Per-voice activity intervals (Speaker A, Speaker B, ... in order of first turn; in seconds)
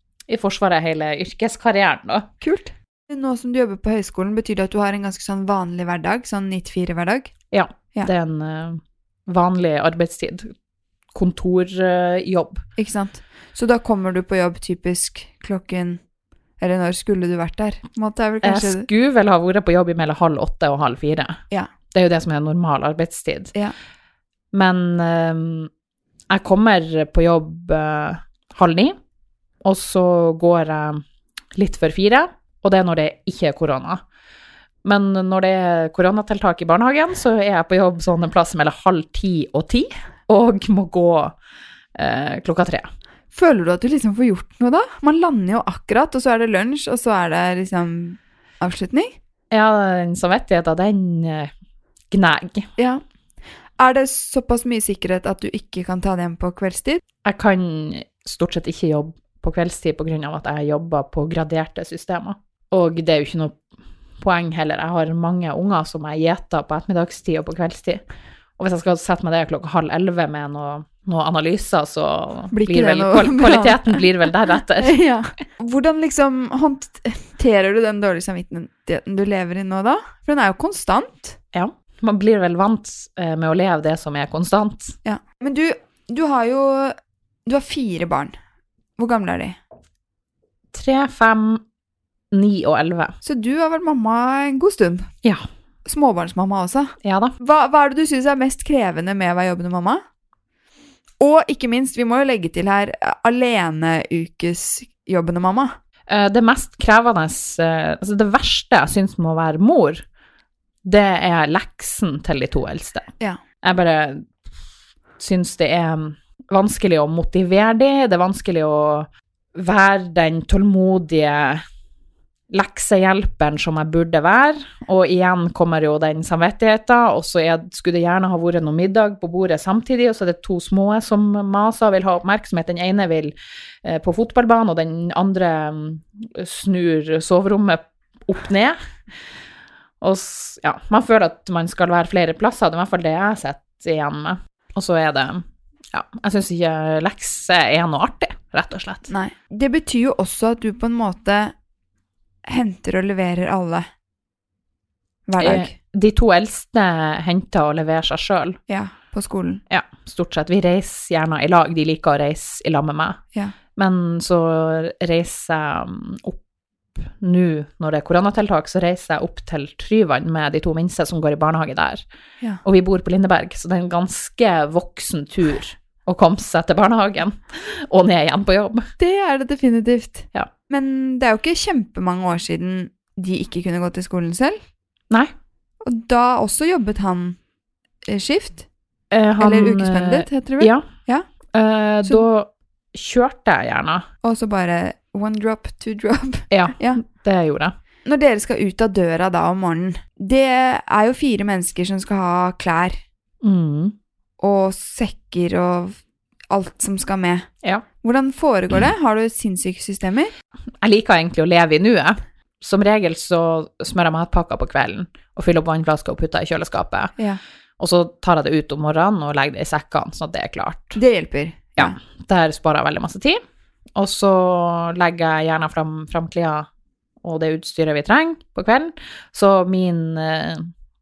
Speaker A: 0.3-2.3, 7.5-10.5, 11.1-12.6, 18.4-21.4, 21.9-23.5, 24.5-25.7, 26.3-29.0, 29.6-31.0, 31.5-34.0, 34.8-41.4, 41.9-42.9, 49.5-51.5, 52.1-52.7, 57.2-63.6, 64.2-68.0, 68.6-75.0, 81.5-85.0, 90.7-91.6, 92.3-93.2, 97.0-97.3, 106.1-110.0, 110.8-113.1, 113.6-114.3, 115.2-121.6, 122.5-138.8, 140.0-149.1, 155.4-158.6, 159.7-163.2, 163.8-166.4, 167.0-172.0, 172.6-178.9, 189.1-190.9, 191.5-194.1, 196.5-197.7, 203.4-203.9, 210.8-217.1, 217.8-221.0, 221.8-223.4, 223.9-226.7, 227.2-230.7
Speaker B: 2.4-7.3, 12.8-16.0, 16.6-18.9, 43.3-49.1, 52.8-53.0, 53.8-57.0, 72.5-81.4, 85.0-88.3, 89.0-89.6, 93.2-95.1, 95.8-100.0, 101.2-105.7, 149.1-151.5, 152.4-153.8, 155.3-155.7, 158.7-159.6, 179.0-184.6, 185.8-187.4, 188.0-188.7, 189.4-191.2, 194.2-197.0, 198.0-203.0, 204.4-206.0, 206.5-207.5, 208.0-210.3, 220.9-221.9